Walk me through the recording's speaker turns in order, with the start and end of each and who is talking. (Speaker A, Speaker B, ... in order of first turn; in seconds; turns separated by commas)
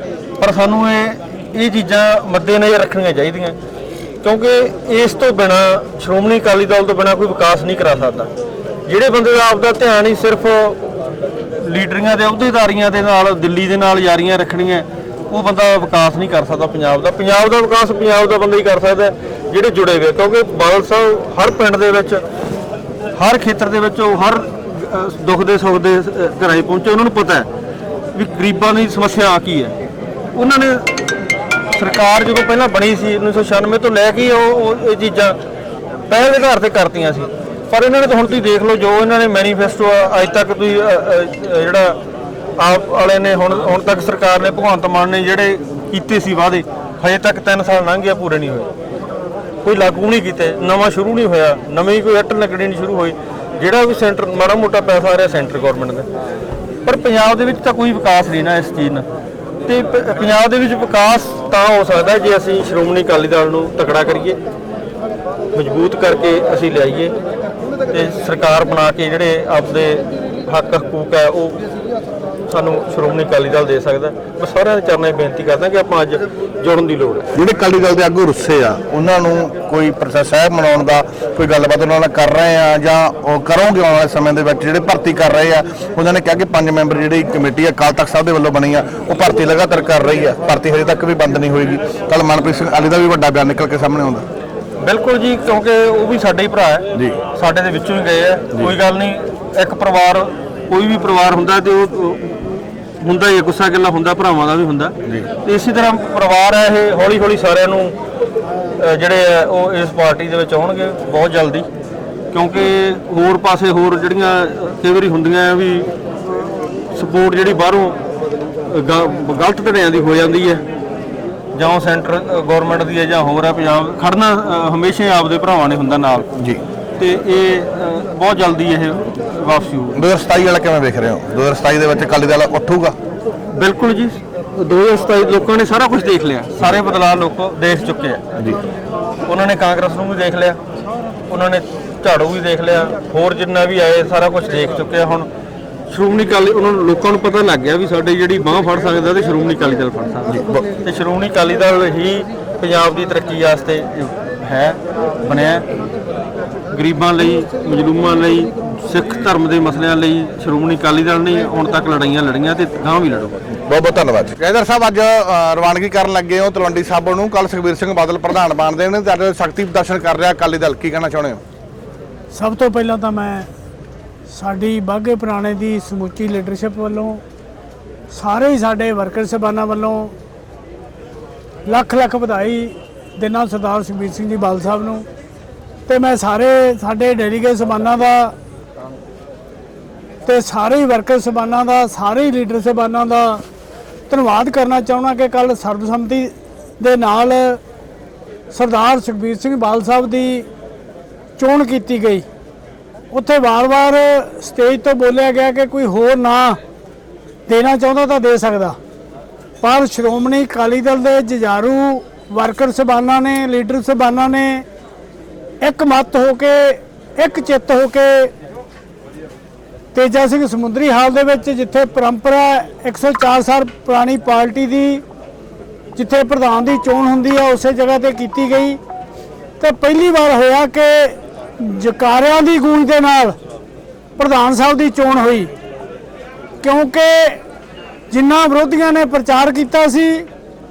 Speaker A: 0.4-3.6, Speaker A: 4.2-8.3, Speaker A: 8.9-10.8, Speaker A: 11.6-22.2, Speaker A: 23.1-27.5, Speaker A: 28.1-29.7, Speaker A: 30.3-31.1, Speaker A: 31.7-35.4, Speaker A: 36.1-42.0, Speaker A: 42.6-48.7, Speaker A: 49.6-56.1, Speaker A: 56.9-59.1, Speaker A: 59.7-64.4, Speaker A: 65.5-67.1, Speaker A: 67.9-71.6, Speaker A: 72.5-77.3, Speaker B: 77.3-94.2, Speaker A: 94.8-108.0, Speaker B: 96.9-97.2, Speaker A: 108.8-111.7, Speaker A: 112.3-118.0, Speaker A: 118.7-120.6, Speaker A: 121.5-126.3, Speaker A: 127.0-130.0, Speaker B: 129.9-133.0, Speaker A: 133.5-138.2, Speaker A: 139.3-140.6, Speaker A: 141.3-145.3, Speaker A: 145.9-155.7, Speaker B: 150.3-150.7, Speaker A: 156.7-163.5, Speaker B: 163.7-171.4, Speaker C: 172.3-173.5, Speaker C: 174.3-177.2, Speaker C: 178.1-180.1, Speaker C: 181.7-185.1, Speaker C: 185.9-188.3, Speaker C: 190.3-193.4, Speaker C: 194.1-197.6, Speaker C: 198.5-200.5, Speaker C: 201.4-202.2, Speaker C: 203.1-206.6, Speaker C: 207.5-208.8, Speaker C: 209.6-214.6, Speaker C: 215.6-218.3, Speaker C: 219.9-225.0, Speaker C: 226.0-228.8, Speaker C: 229.6-233.4, Speaker C: 234.2-235.5, Speaker C: 236.6-237.4, Speaker C: 238.1-240.3